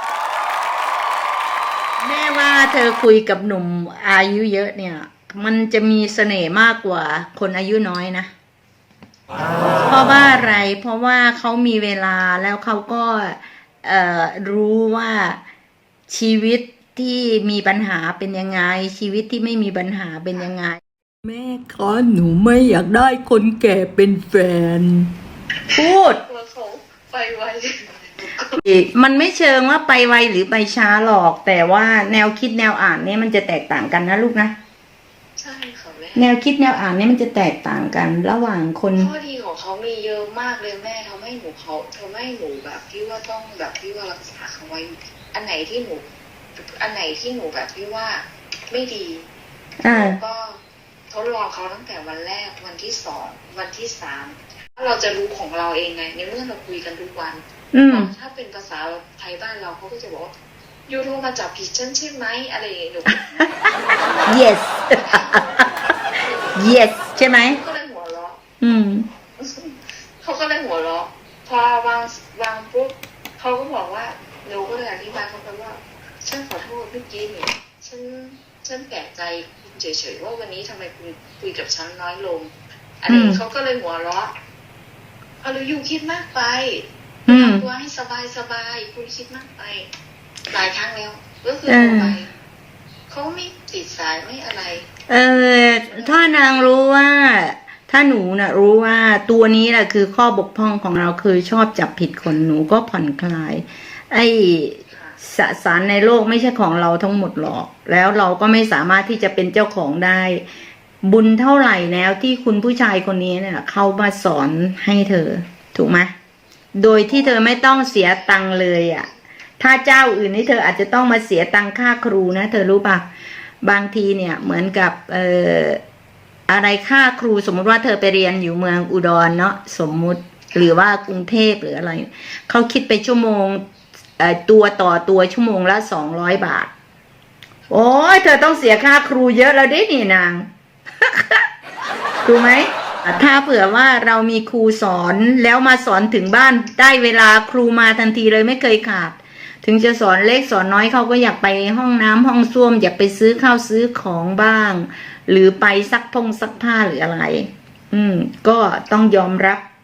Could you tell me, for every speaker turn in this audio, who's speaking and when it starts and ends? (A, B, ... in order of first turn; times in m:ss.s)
0:02.0-0:08.3 A
0:09.8-0:15.4 A
0:16.1-0:25.1 A
0:25.7-0:26.2 A
0:26.1-0:28.6 B
0:28.6-0:34.5 A
0:35.4-0:36.3 B
0:36.2-0:39.1 A
0:39.0-0:49.3 B
0:49.8-0:50.2 A
0:49.8-0:50.6 B
0:51.1-1:00.3 B
0:57.7-0:58.1 A
1:00.9-1:03.4 B
1:04.2-1:05.6 A
1:05.0-1:06.6 B
1:06.6-1:07.6 A
1:07.3-1:08.4 B
1:08.6-1:09.1 A
1:09.4-1:24.3 B
1:23.1-1:23.4 A
1:25.4-1:29.9 B
1:27.3-1:27.6 A
1:30.5-1:32.3 B
1:31.7-1:32.2 A
1:33.1-1:34.9 B
1:35.1-1:50.4 A
1:35.9-1:36.8 B
1:44.9-1:45.2 B
1:51.0-1:56.1 A
1:56.7-1:59.1 A
1:57.1-1:58.3 B
1:59.6-2:03.0 A
2:03.6-2:05.8 A
2:06.5-2:13.6 A
2:14.2-2:16.7 A
2:17.7-2:20.5 A
2:21.0-2:21.4 A
2:22.2-2:39.6 A